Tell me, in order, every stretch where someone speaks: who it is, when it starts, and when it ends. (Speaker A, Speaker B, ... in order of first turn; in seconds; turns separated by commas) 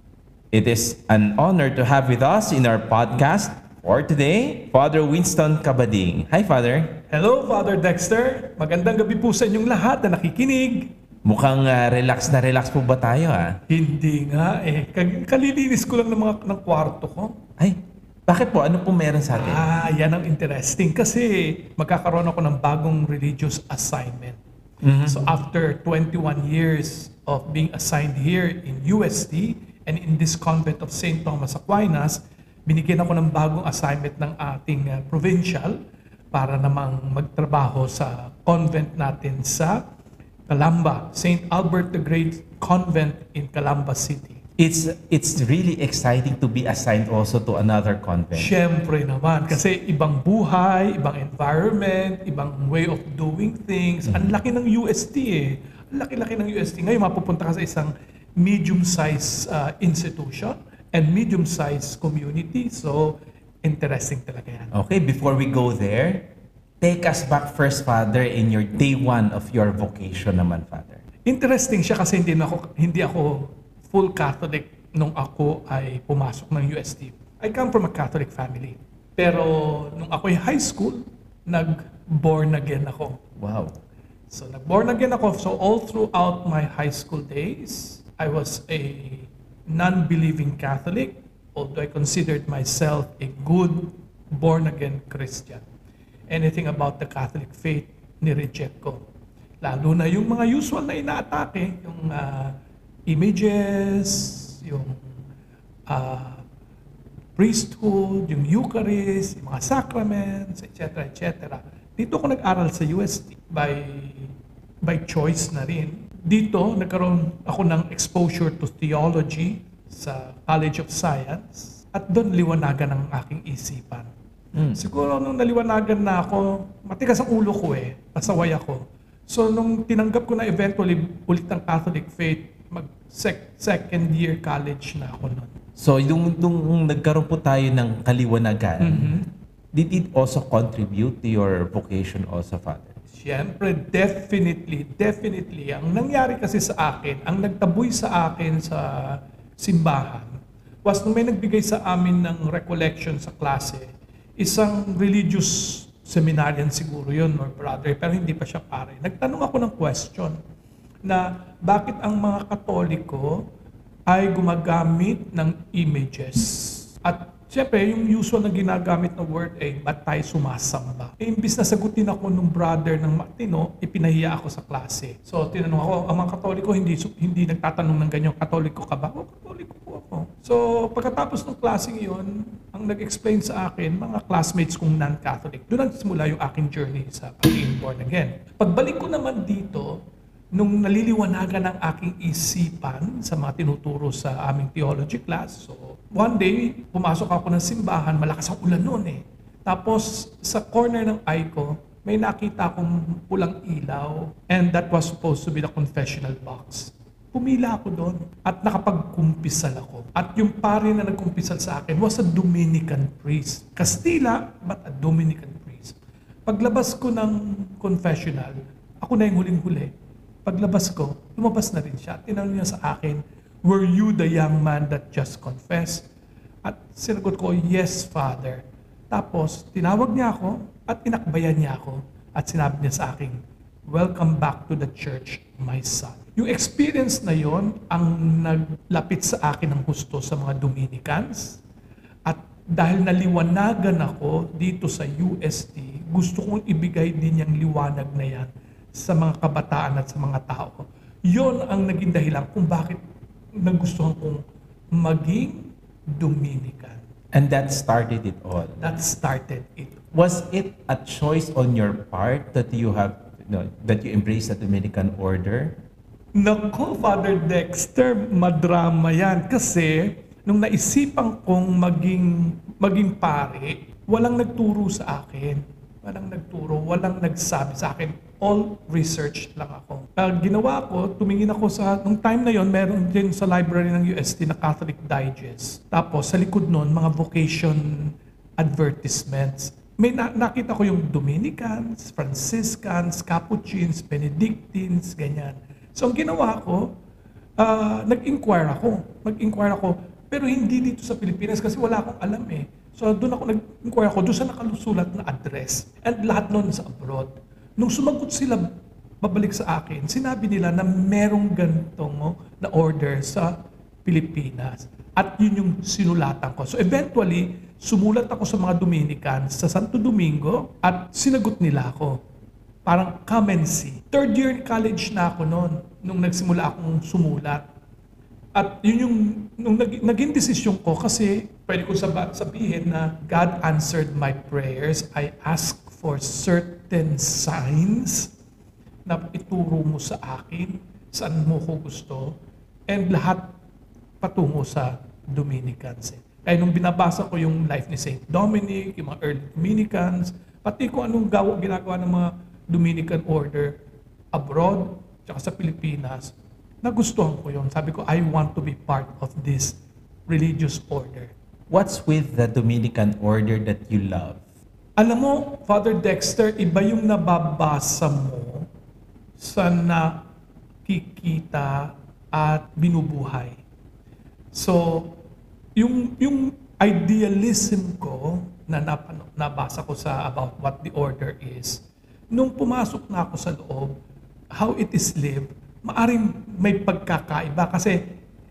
Speaker A: 0.5-7.0, Speaker B: 7.1-10.9, Speaker A: 11.2-13.6, Speaker B: 13.7-17.4, Speaker A: 17.6-19.7, Speaker B: 19.3-24.4, Speaker A: 24.8-25.3, Speaker B: 25.1-35.8, Speaker B: 36.3-39.8, Speaker B: 40.5-44.4, Speaker A: 44.6-48.5, Speaker B: 48.3-64.7, Speaker A: 54.1-54.3, Speaker A: 64.7-66.3, Speaker A: 66.8-71.0, Speaker B: 71.3-83.2, Speaker A: 83.4-83.8, Speaker B: 84.3-95.6, Speaker B: 96.3-99.0, Speaker B: 99.6-105.0, Speaker B: 105.9-106.4, Speaker B: 107.4-124.1, Speaker A: 124.5-124.8, Speaker B: 124.8-135.6, Speaker A: 135.8-139.2, Speaker B: 138.8-139.3, Speaker A: 139.7-142.9, Speaker B: 143.1-150.3, Speaker B: 150.8-153.8, Speaker B: 154.4-160.4, Speaker B: 161.1-163.4, Speaker B: 164.1-190.0, Speaker B: 190.5-219.9, Speaker B: 220.4-226.1, Speaker B: 226.6-241.6, Speaker B: 242.3-253.0, Speaker B: 253.6-254.4, Speaker B: 254.9-257.0, Speaker A: 257.3-258.9, Speaker B: 258.8-260.0, Speaker A: 260.1-265.8, Speaker B: 266.4-296.9, Speaker B: 297.6-313.5, Speaker B: 314.1-322.2, Speaker B: 322.9-327.6, Speaker B: 328.6-338.3, Speaker B: 339.1-342.4, Speaker B: 342.9-343.5, Speaker B: 344.2-353.8, Speaker B: 354.3-361.3, Speaker A: 361.7-364.4, Speaker B: 365.0-368.7, Speaker B: 369.4-370.3, Speaker B: 370.9-373.6, Speaker B: 374.5-375.2, Speaker B: 375.8-383.9, Speaker B: 384.6-388.0